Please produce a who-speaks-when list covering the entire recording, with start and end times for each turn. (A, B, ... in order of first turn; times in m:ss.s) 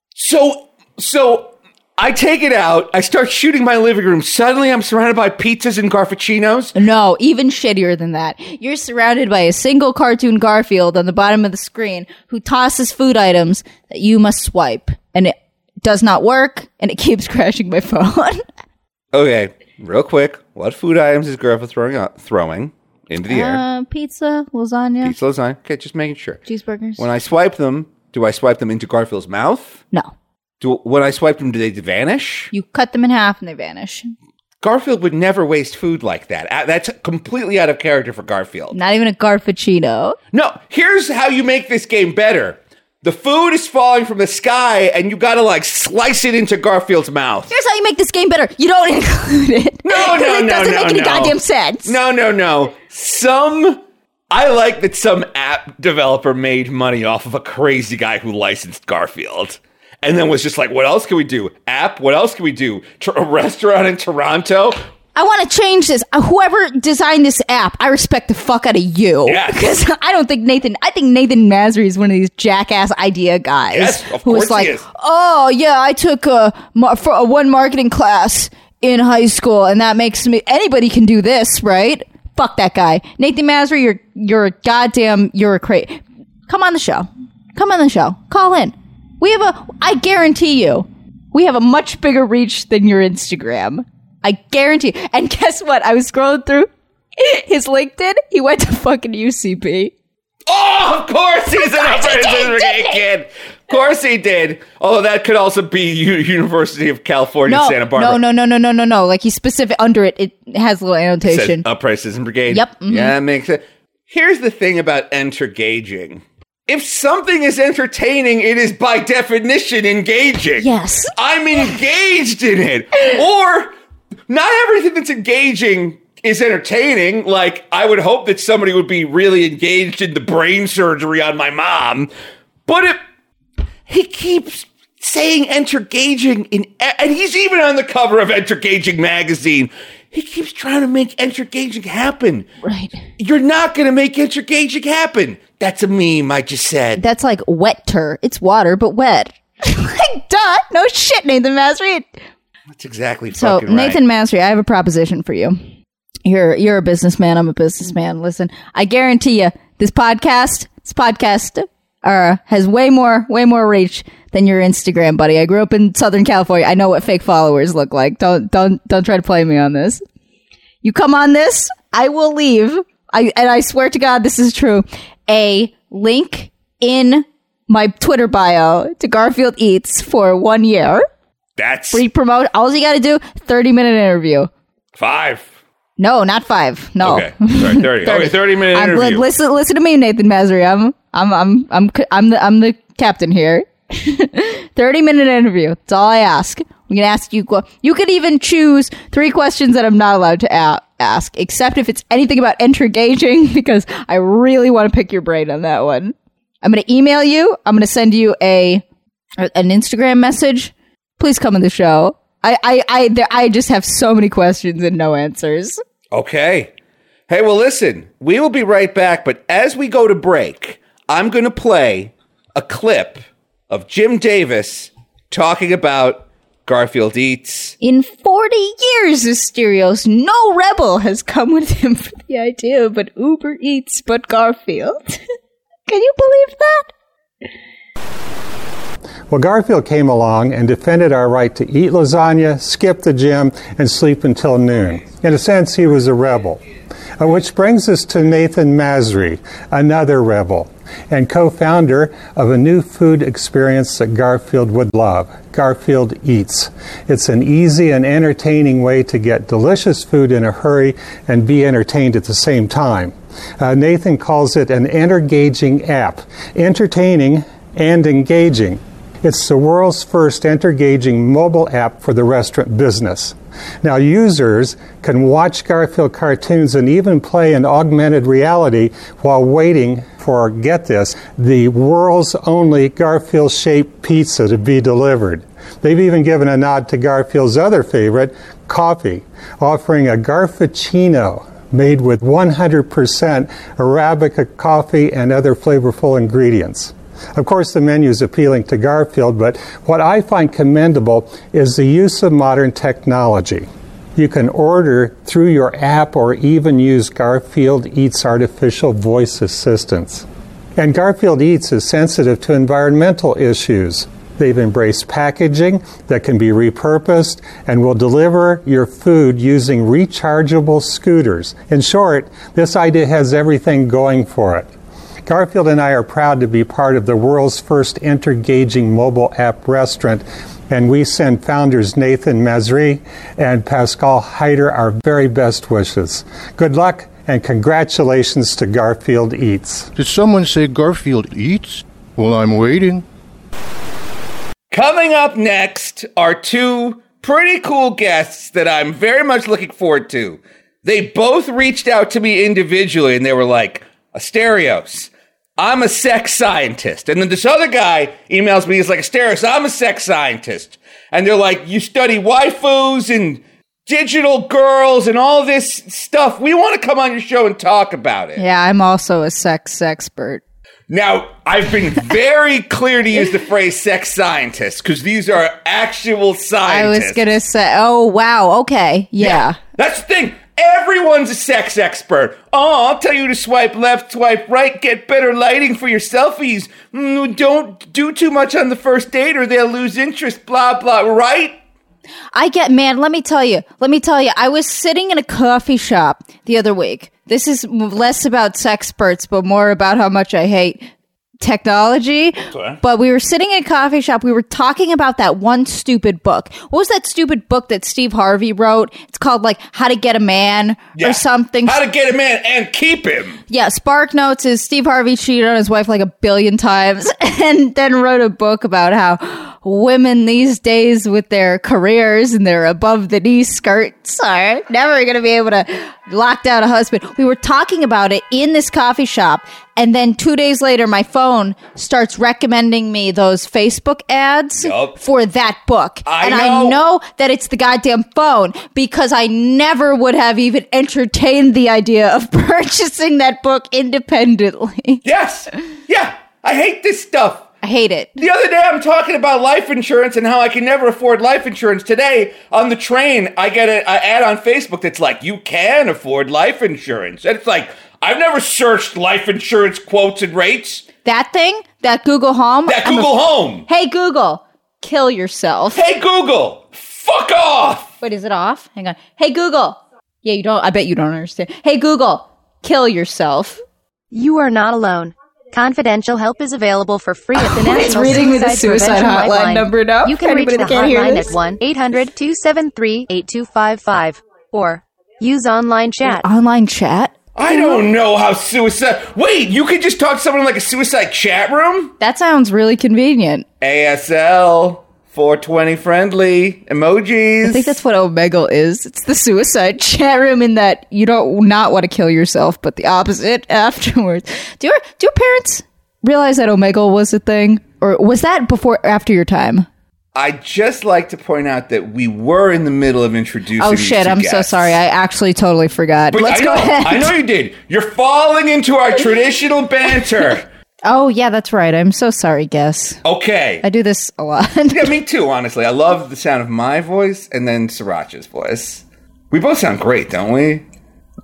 0:00.2-0:06.7 A
0:06.8-0:18.4 B
0:19.1-0:23.6 A
0:23.3-0:25.1 B
0:25.0-0:26.4 A
0:26.5-0:27.0 B
0:27.0-0:29.8 A
0:30.6-0:32.5 A
0:32.5-0:34.1 B
0:34.6-0:38.8 A
0:38.7-0:40.2 B
0:40.3-0:47.5 A
0:47.5-0:52.0 B
0:49.8-1:04.8 A
1:05.1-1:39.9 B
1:09.2-1:09.6 A
1:13.7-1:14.8 A
1:40.5-1:48.2 A
1:41.5-1:43.0 B
1:47.5-1:51.6 B
1:51.2-2:03.7 A
1:52.5-1:53.1 B
2:00.6-2:01.1 B
2:04.3-2:12.1 A
2:12.7-2:13.0 A
2:13.9-2:22.5 A
2:22.6-2:23.0 B
2:23.2-2:27.0 A
2:27.0-2:32.1 B
2:32.7-2:34.0 A
2:33.3-2:35.6 B
2:36.2-2:50.0 B
2:50.8-3:01.0 B
3:01.6-3:02.0 A
3:01.9-3:04.5 B
3:04.9-3:05.5 A
3:06.0-3:28.8 B
3:07.0-3:09.3 A
3:29.4-3:35.8 B
3:36.1-3:36.7 A
3:37.3-3:47.8 A
3:47.8-3:55.2 B
3:55.9-3:56.9 B
3:59.3-4:06.6 C
4:07.2-5:03.6 C
5:04.2-5:10.2 C
5:10.8-5:24.7 C
5:25.2-5:39.9 C
5:40.0-5:43.0 D
5:44.7-6:08.4 A
6:08.4-6:10.4 B
6:10.9-6:17.2 A
6:16.6-6:19.6 B
6:19.2-6:31.6 A
6:32.3-6:40.9 B
6:41.4-6:51.8 B
6:42.5-6:42.8 A
6:51.0-6:53.4 A
6:53.5-7:25.0 B
7:14.6-7:15.0 A
7:16.0-7:16.8 A
7:25.0-7:27.4 A
7:27.6-7:28.2 B
7:28.2-7:40.8 A
7:41.0-7:43.1 B
7:42.6-7:43.6 A
7:43.6-7:45.8 B
7:45.7-7:47.9 A
7:48.0-7:53.6 B
7:54.1-8:06.2 E
7:57.3-8:01.4 B
8:06.1-8:07.8 B
8:07.4-8:11.9 A
8:12.0-8:13.4 B
8:13.6-8:17.8 A
8:17.4-8:29.7 B
8:30.1-8:34.8 A
8:33.6-8:37.1 B
8:36.1-8:40.5 A
8:40.8-8:43.0 B
8:43.0-8:43.6 A
8:43.6-8:44.9 B
8:44.7-8:50.6 A